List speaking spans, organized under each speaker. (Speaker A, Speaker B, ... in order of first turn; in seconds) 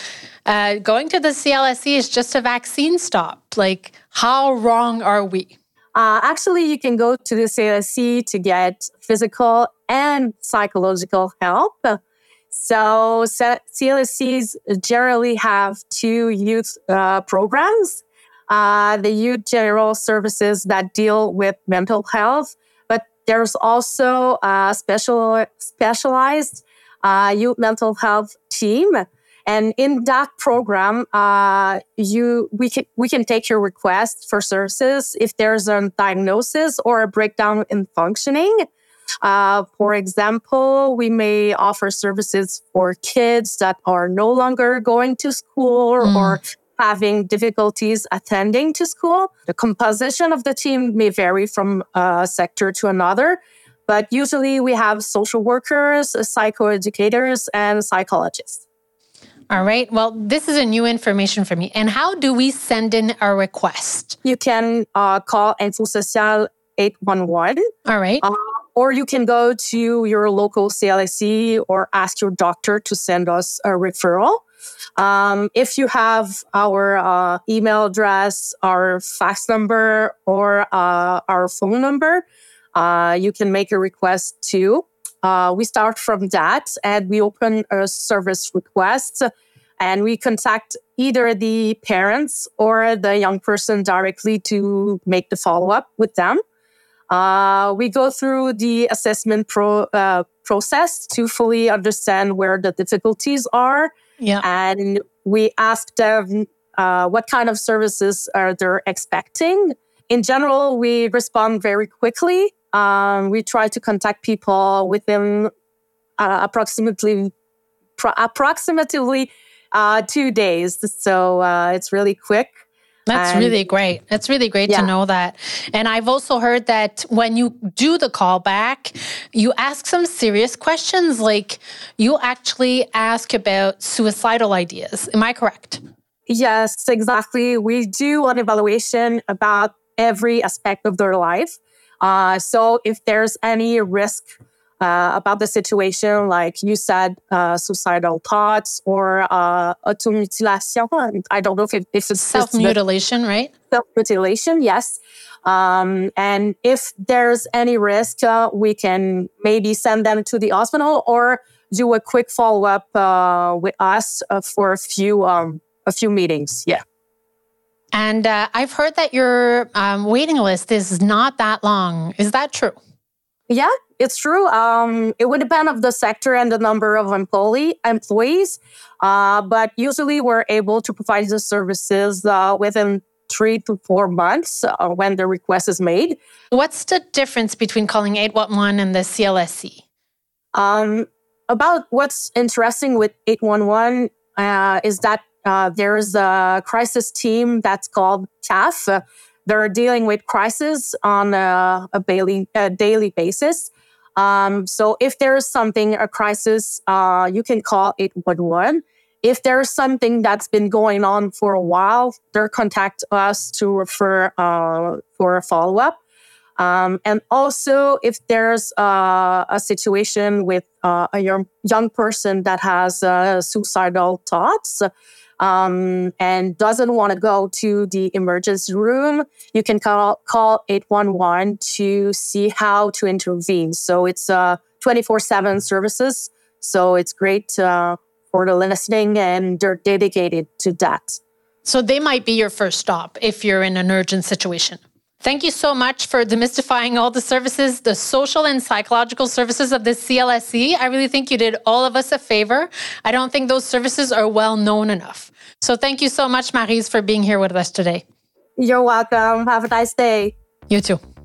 Speaker A: 0.5-5.5, 46.0-46.4, 59.5-64.2, 67.9-68.2, 104.2-104.5, 123.1-135.8, 152.2-153.5, 167.9-172.8, 186.5-189.8, 241.7-258.0, 260.7-261.0
Speaker B: 6.0-12.0, 12.5-38.7, 39.2-58.6, 64.2-67.6, 68.2-74.4, 75.0-82.2, 82.8-89.3, 89.8-96.4, 97.1-115.5, 116.2-117.3, 118.0-122.5, 123.1-123.6, 136.3-144.3, 144.8-152.8, 153.7-166.8, 173.5-186.2, 190.5-216.0, 216.6-224.9, 225.4-241.2, 258.6-260.4